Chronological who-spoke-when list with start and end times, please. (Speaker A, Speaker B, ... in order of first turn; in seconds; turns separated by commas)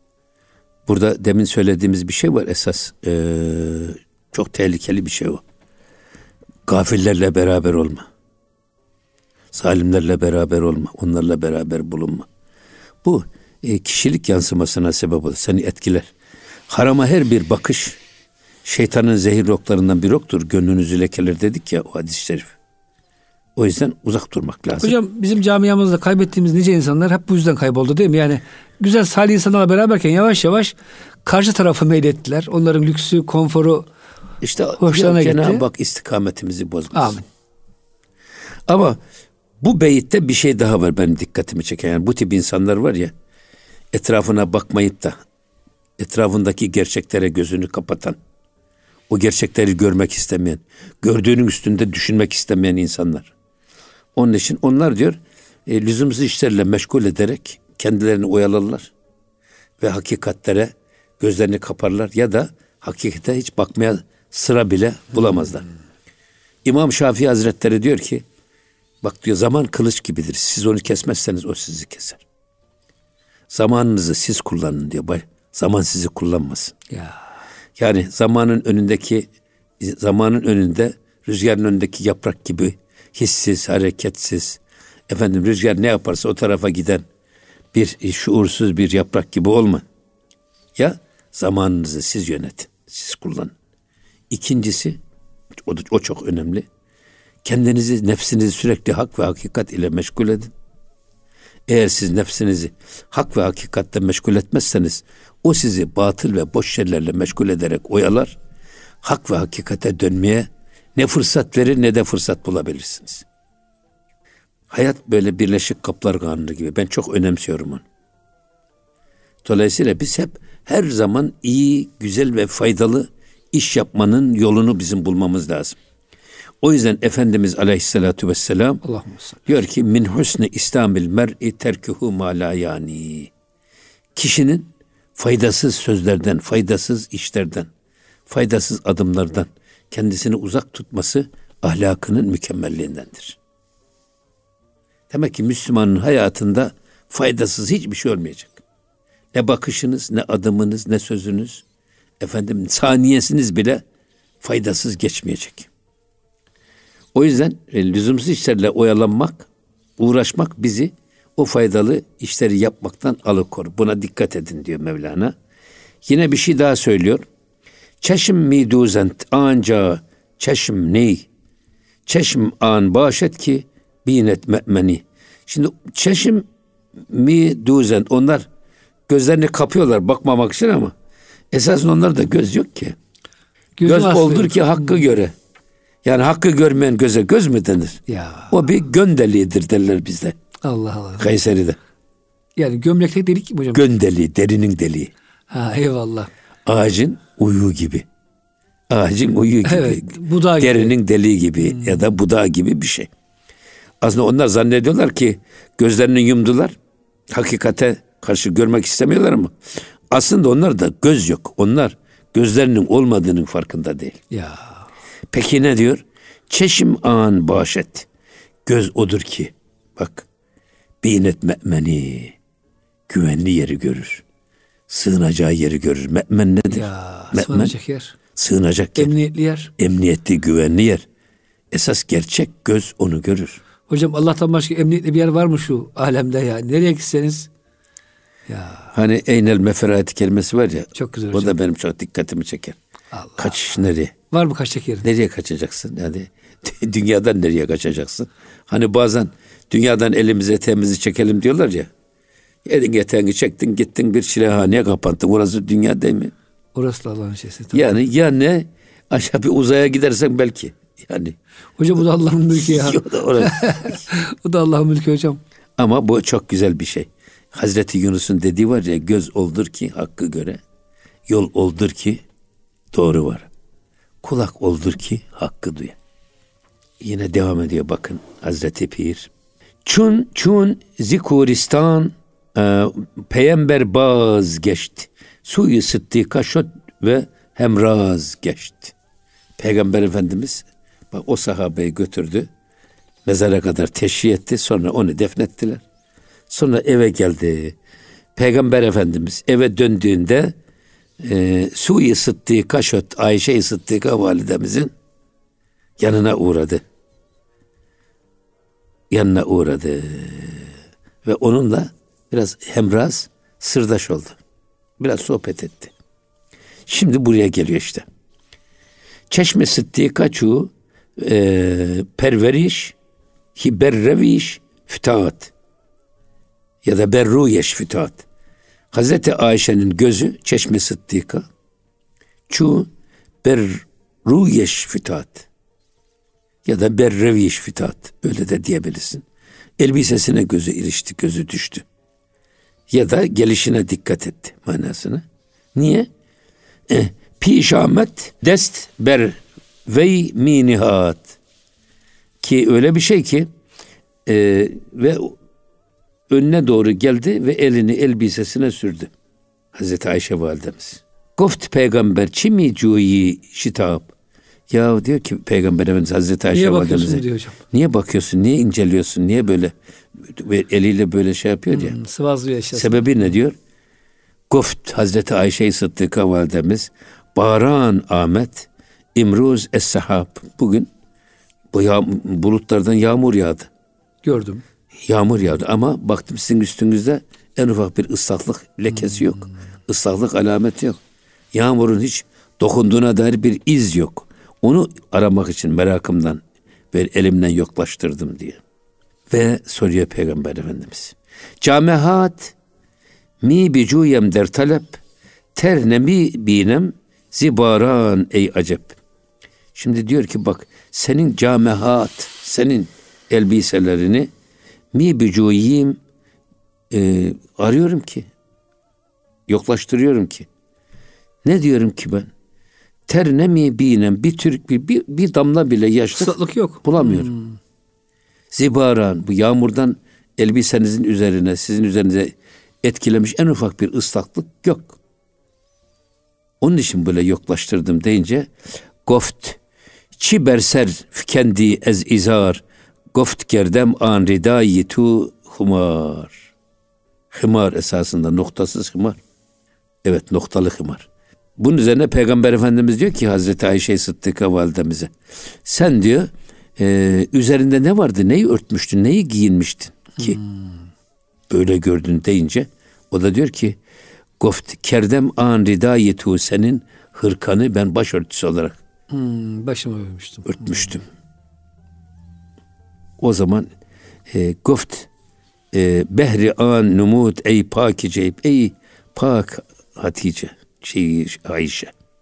Speaker A: 0.9-5.4, Speaker A: 6.7-8.1, Speaker A: 9.5-12.2, Speaker A: 13.0-16.1, Speaker A: 16.7-18.0, Speaker A: 18.6-22.5, Speaker A: 23.6-24.9, Speaker B: 24.8-30.7, Speaker B: 31.2-33.9, Speaker A: 34.4-37.2, Speaker B: 34.8-35.6, Speaker B: 36.9-37.2, Speaker A: 38.7-39.0, Speaker A: 39.6-43.1, Speaker A: 43.9-45.2, Speaker A: 46.0-48.2, Speaker A: 49.1-53.3, Speaker A: 54.1-58.9, Speaker A: 59.8-65.6, Speaker A: 66.6-68.2, Speaker A: 69.0-72.2, Speaker A: 73.5-76.7, Speaker B: 76.9-77.2, Speaker A: 77.8-79.3, Speaker A: 79.8-87.0, Speaker A: 87.7-89.8, Speaker A: 90.8-93.5, Speaker A: 94.3-95.0, Speaker A: 95.6-96.7, Speaker A: 97.4-100.5, Speaker A: 101.7-108.3, Speaker A: 109.0-113.2, Speaker A: 114.7-117.8, Speaker A: 119.4-125.8, Speaker A: 126.6-128.8, Speaker B: 128.8-129.4, Speaker A: 129.4-133.3, Speaker A: 134.1-137.7, Speaker A: 138.3-143.4, Speaker A: 145.1-148.6, Speaker A: 149.3-151.6, Speaker A: 152.2-153.8, Speaker A: 154.4-155.7, Speaker A: 157.1-165.3, Speaker A: 166.0-167.2, Speaker A: 168.0-171.2, Speaker A: 172.1-176.4, Speaker A: 177.1-178.4, Speaker A: 179.1-180.9, Speaker A: 181.5-182.9, Speaker B: 183.8-185.0, Speaker A: 183.8-185.3, Speaker A: 186.0-190.3, Speaker B: 188.1-188.5, Speaker B: 190.6-191.3, Speaker A: 191.2-191.8, Speaker B: 192.6-193.9, Speaker A: 193.7-195.1, Speaker B: 195.5-196.3, Speaker A: 196.7-198.1, Speaker A: 198.9-203.1, Speaker B: 199.6-200.9, Speaker A: 204.0-206.8, Speaker A: 207.3-209.6, Speaker A: 210.1-214.2, Speaker B: 214.3-214.8, Speaker A: 215.3-218.1, Speaker A: 218.6-220.3, Speaker A: 221.0-222.3, Speaker A: 223.1-224.2, Speaker A: 224.9-227.7, Speaker B: 226.7-228.2, Speaker A: 228.3-229.1, Speaker B: 229.0-229.7, Speaker A: 229.8-231.0, Speaker A: 231.7-233.6, Speaker B: 233.9-237.5, Speaker B: 238.5-238.9, Speaker A: 238.9-242.8, Speaker B: 240.9-241.6, Speaker B: 243.1-243.5, Speaker A: 243.4-244.1, Speaker B: 244.3-245.1, Speaker A: 245.0-251.9, Speaker A: 252.6-256.3, Speaker B: 256.7-257.9, Speaker A: 257.7-261.4, Speaker B: 261.8-265.4, Speaker A: 262.5-264.0, Speaker A: 265.8-270.6, Speaker A: 271.3-272.2, Speaker A: 272.9-273.5, Speaker A: 274.2-276.0, Speaker A: 277.0-279.3, Speaker A: 279.8-288.9, Speaker A: 289.6-292.5, Speaker A: 293.2-295.8, Speaker A: 296.5-297.8, Speaker A: 298.4-300.5, Speaker A: 301.2-304.9, Speaker A: 306.0-306.8, Speaker A: 309.1-310.7, Speaker A: 311.2-314.4, Speaker A: 315.0-315.9, Speaker A: 316.9-318.0, Speaker A: 319.3-322.9, Speaker A: 323.6-325.5, Speaker A: 326.8-328.2, Speaker A: 328.9-331.4, Speaker A: 332.5-332.9, Speaker A: 333.4-335.5, Speaker A: 336.6-339.2, Speaker A: 339.8-341.8, Speaker A: 342.9-345.2, Speaker A: 345.7-346.1, Speaker A: 346.9-351.4, Speaker A: 352.4-353.5, Speaker A: 354.2-355.4, Speaker A: 356.3-359.1, Speaker A: 359.7-364.1, Speaker A: 364.7-371.9, Speaker B: 366.5-367.6, Speaker B: 371.7-373.3, Speaker A: 372.7-373.6, Speaker A: 374.5-380.9, Speaker A: 381.7-383.7, Speaker B: 384.2-384.6, Speaker A: 385.0-391.0, Speaker A: 391.5-398.6, Speaker A: 399.3-402.5, Speaker A: 403.4-405.0, Speaker A: 405.5-409.0, Speaker A: 409.7-414.3, Speaker A: 414.9-416.0, Speaker A: 416.9-418.3, Speaker A: 419.5-420.5, Speaker A: 421.4-422.3, Speaker A: 423.1-427.3, Speaker B: 426.1-427.6, Speaker A: 428.5-435.0, Speaker A: 436.6-438.5, Speaker A: 439.0-439.6, Speaker A: 440.1-446.5, Speaker A: 447.3-449.2, Speaker A: 450.0-455.1, Speaker A: 455.6-460.4, Speaker B: 460.2-460.8, Speaker A: 461.5-463.8, Speaker A: 464.4-468.8, Speaker B: 469.1-470.7, Speaker A: 470.4-471.0, Speaker A: 473.2-473.7, Speaker A: 474.3-475.1, Speaker A: 475.7-481.9